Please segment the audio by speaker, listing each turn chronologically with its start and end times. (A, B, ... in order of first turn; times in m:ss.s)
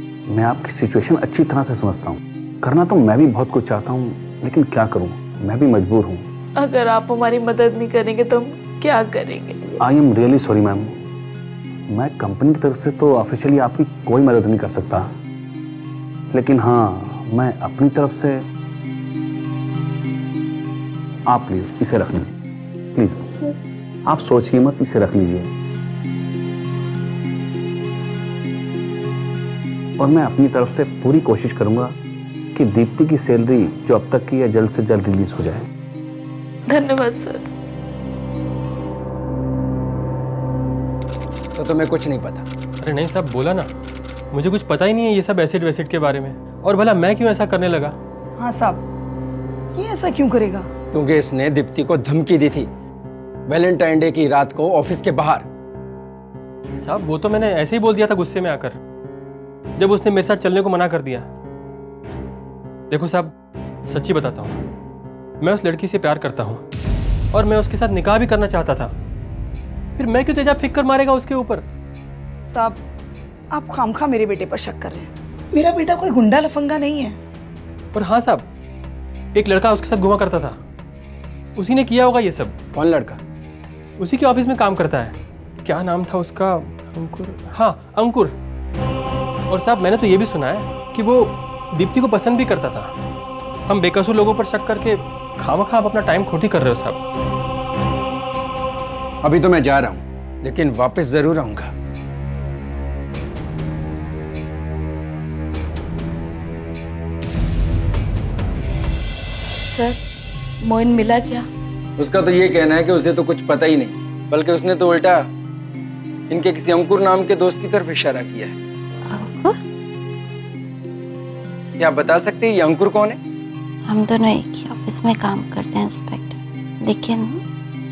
0:00.3-0:06.2 A
0:06.6-0:09.7 B
0:09.8-0:11.0 A
0:11.9-0:15.1 A
0:16.3-0:18.4 A
0:21.3-0:22.3 A
0:22.9-0:23.4 A
0:24.1-0:25.5 A
0:30.0-0:31.9 A
0:32.5-0:35.6 A
0:36.7-0:37.5 B
0:41.6-0:42.5 C
0:42.8-0:43.7 D
0:44.3-0:47.9 D
0:48.4-0:48.8 E
0:49.7-0:50.7 E
0:50.9-0:52.7 C
0:53.5-0:55.5 C
0:56.8-0:58.8 D
0:59.8-1:01.3 D
1:02.9-1:03.3 D
1:03.8-1:04.6 D
1:05.4-1:06.6 D
1:07.3-1:08.9 D
1:10.0-1:11.6 D
1:12.4-1:12.8 E
1:13.5-1:17.1 E
1:17.9-1:18.5 D
1:19.3-1:20.6 D
1:21.6-1:22.6 D
1:22.7-1:23.2 C
1:24.0-1:28.3 D
1:29.5-1:32.9 D
1:33.7-1:37.0 D
1:39.2-1:41.7 C
1:49.7-1:50.0 B
1:50.6-1:51.5 B
1:52.0-1:55.2 C
1:56.3-1:58.6 C
1:59.1-1:59.6 F
2:01.8-2:03.2 C
2:03.8-2:07.4 F